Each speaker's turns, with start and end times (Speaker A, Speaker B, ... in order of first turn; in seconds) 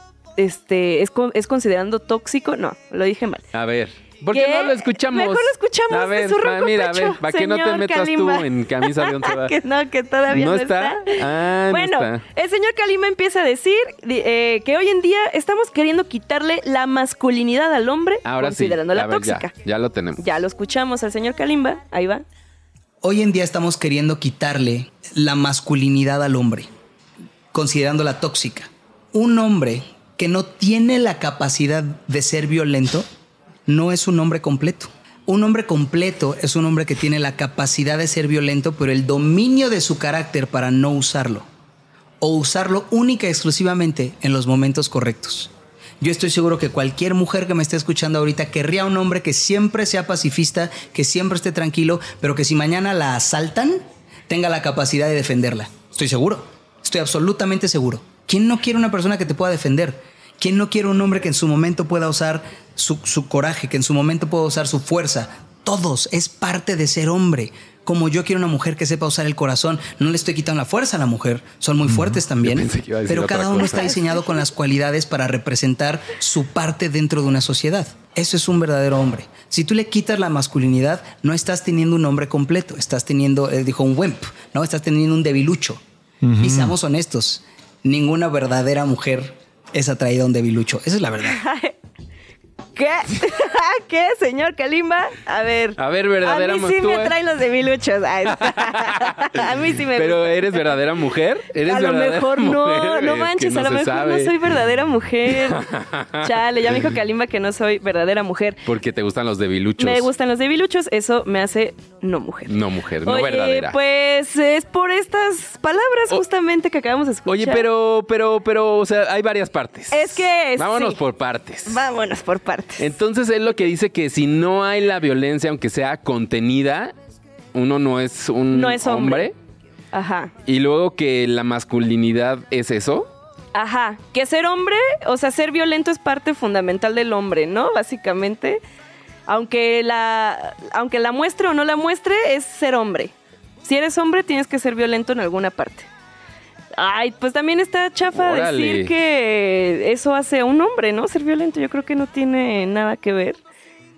Speaker A: 0.4-3.4, 4.3-19.5, 20.2-22.2, 91.2-91.7, 92.8-100.8, 101.6-105.6, 106.2-108.6, 109.8-117.7, 119.9-121.0, 121.7-122.9, 128.5-129.3, 129.9-130.3, 133.5-138.6, 139.3-143.1, 143.6-145.9, 146.8-153.4
Speaker B: 3.5-9.6, 10.3-12.2, 18.2-20.2, 72.4-74.0, 95.8-97.1, 98.4-104.3, 105.3-106.8, 108.7-110.1, 112.5-113.8, 117.3-121.8, 122.8-126.9, 127.5-129.3, 130.5-133.1, 148.1-148.9
Speaker C: 23.0-26.7, 27.5-33.0, 33.7-41.5, 42.2-85.8, 86.3-91.4